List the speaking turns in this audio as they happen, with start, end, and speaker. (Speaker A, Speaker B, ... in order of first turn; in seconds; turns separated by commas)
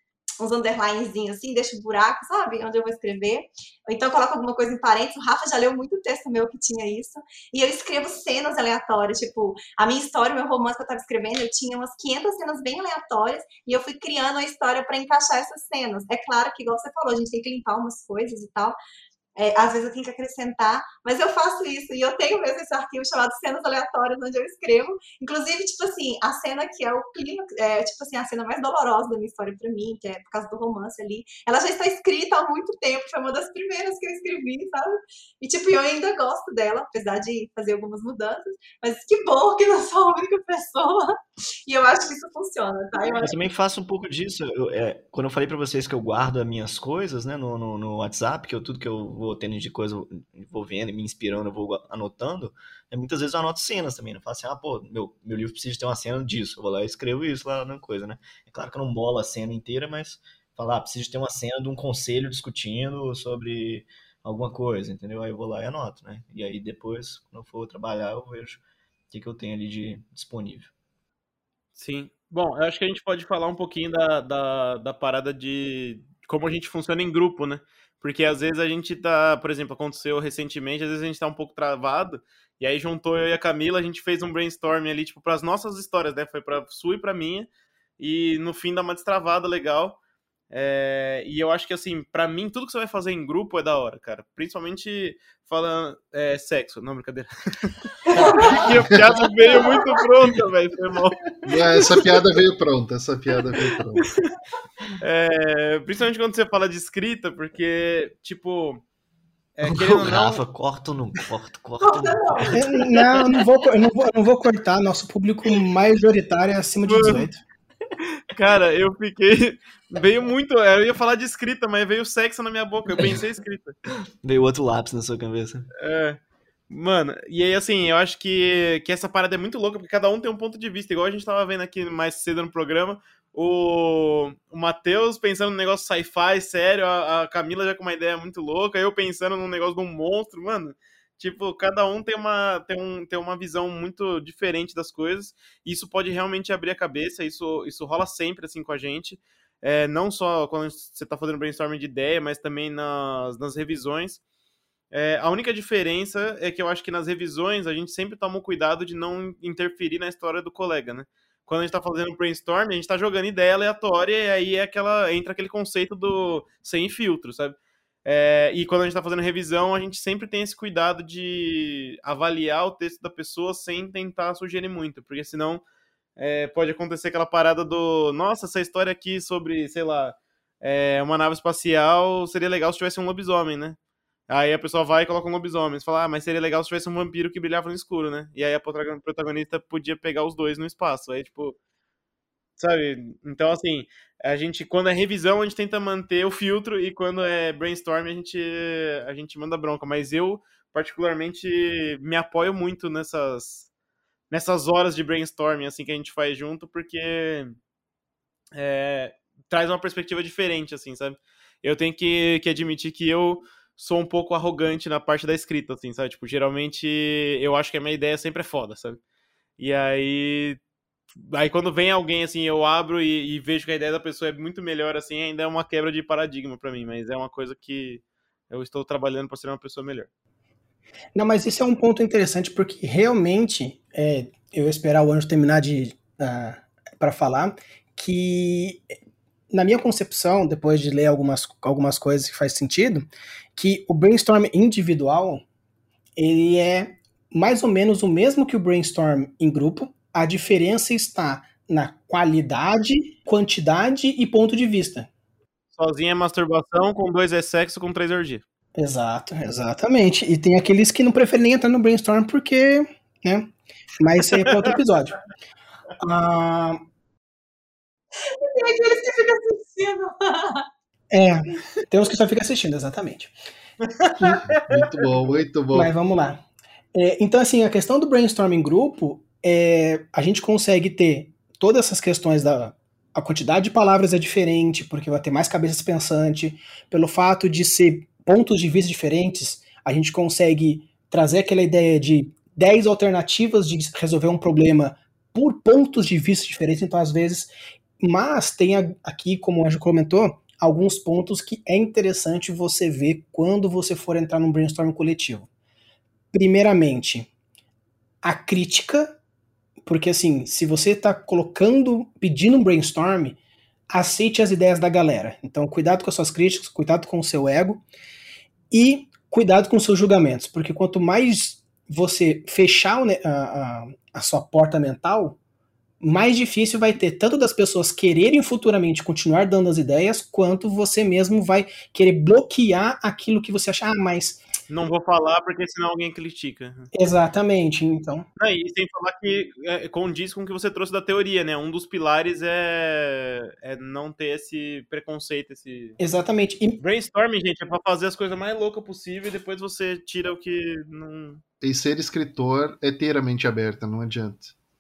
Speaker A: 0.4-18.8, Speaker A: 19.4-43.4, Speaker B: 43.2-70.7, Speaker C: 71.8-90.0, Speaker C: 90.5-97.8, Speaker A: 98.1-98.7, Speaker C: 98.4-101.2, Speaker B: 101.2-101.5, Speaker D: 101.4-104.1, Speaker C: 105.0-108.8, Speaker C: 109.5-110.4, Speaker B: 109.7-112.8, Speaker A: 111.8-112.5, Speaker E: 112.6-117.4, Speaker C: 116.9-117.3, Speaker C: 118.3-123.8, Speaker B: 123.9-125.7, Speaker C: 125.8-126.2, Speaker C: 126.7-154.2, Speaker C: 154.9-175.6, Speaker C: 176.2-183.8, Speaker C: 184.3-191.6, Speaker C: 192.6-203.7, Speaker C: 204.3-207.5, Speaker C: 208.5-219.0, Speaker C: 219.6-220.6, Speaker C: 221.2-230.1, Speaker E: 231.1-238.9, Speaker E: 239.5-245.4, Speaker E: 246.2-255.1, Speaker C: 255.7-258.4, Speaker E: 258.8-265.2, Speaker C: 264.3-264.6, Speaker E: 266.0-266.8, Speaker A: 268.2-270.7, Speaker E: 271.1-273.3, Speaker C: 273.8-274.8, Speaker E: 274.1-274.5, Speaker D: 274.2-275.9, Speaker E: 275.7-305.5, Speaker E: 306.3-307.3, Speaker E: 308.2-309.2, Speaker E: 309.8-313.4, Speaker E: 313.9-317.8, Speaker E: 318.7-325.4, Speaker E: 326.0-334.4, Speaker C: 334.7-336.9, Speaker E: 336.9-338.2, Speaker C: 338.4-346.0, Speaker E: 346.0-346.8, Speaker C: 346.8-351.4, Speaker D: 351.6-354.5